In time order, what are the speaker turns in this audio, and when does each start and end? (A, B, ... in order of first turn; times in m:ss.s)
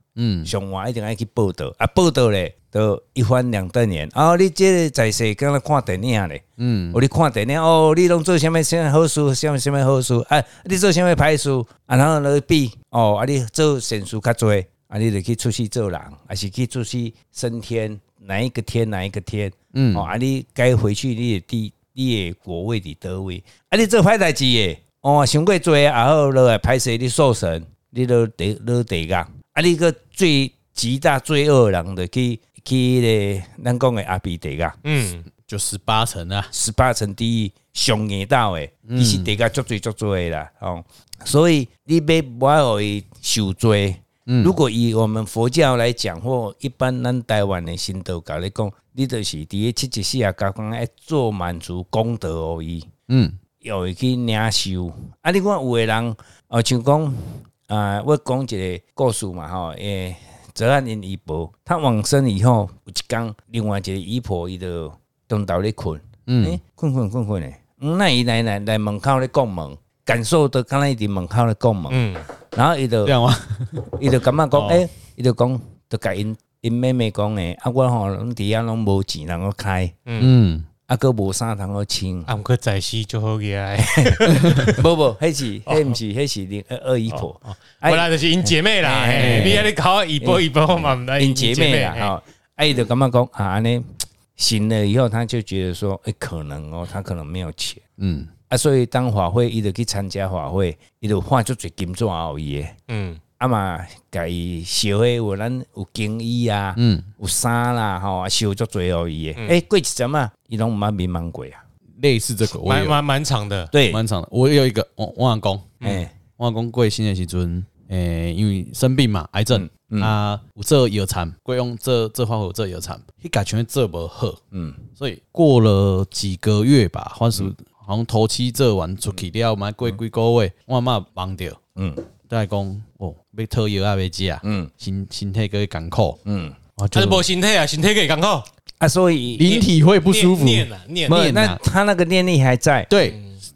0:00.2-0:00.5 A
0:00.5-0:34.8 B
0:06.6-0:07.0 A
0:19.7-0:20.1 A
0:34.8-0:35.3 C
0:35.4-0:36.5 A
0:36.5-0:52.9 B
0:38.9-0:39.3 A
0:44.3-0:44.5 A
0:53.1-0:53.4 A
0:53.6-1:13.2 B
1:06.3-1:06.6 A
1:11.9-1:12.2 C
1:13.1-1:13.9 A
1:13.9-1:20.0 B
1:14.5-1:14.8 A
1:20.1-1:20.3 C
1:20.2-1:20.7 A
1:20.9-1:22.3 B
1:22.3-1:24.8 C
1:23.8-1:37.8 B
1:25.7-1:26.0 C
1:27.1-1:32.1 C
1:29.2-1:29.7 A
1:38.0-1:38.3 A
1:38.5-1:42.8 B
1:42.9-1:43.2 C
1:43.4-1:51.6 B
1:46.8-1:47.1 A
1:52.0-1:53.0 A
1:52.6-1:53.7 C
1:53.7-1:54.0 B
1:53.9-1:55.8 A
1:55.8-1:56.1 C
1:55.8-1:56.1 B
1:56.4-2:04.4 A
1:59.5-2:00.1 B
2:04.5-2:04.8 B
2:05.0-2:11.6 A
2:11.8-2:12.0 B
2:12.3-2:16.2 A
2:14.4-2:14.7 B
2:16.2-2:16.6 B
2:16.8-2:17.2 A
2:16.9-2:18.5 C
2:18.8-2:19.6 B
2:19.4-2:21.6 A
2:19.5-2:21.2 C
2:21.1-2:22.9 B
2:22.9-2:23.2 A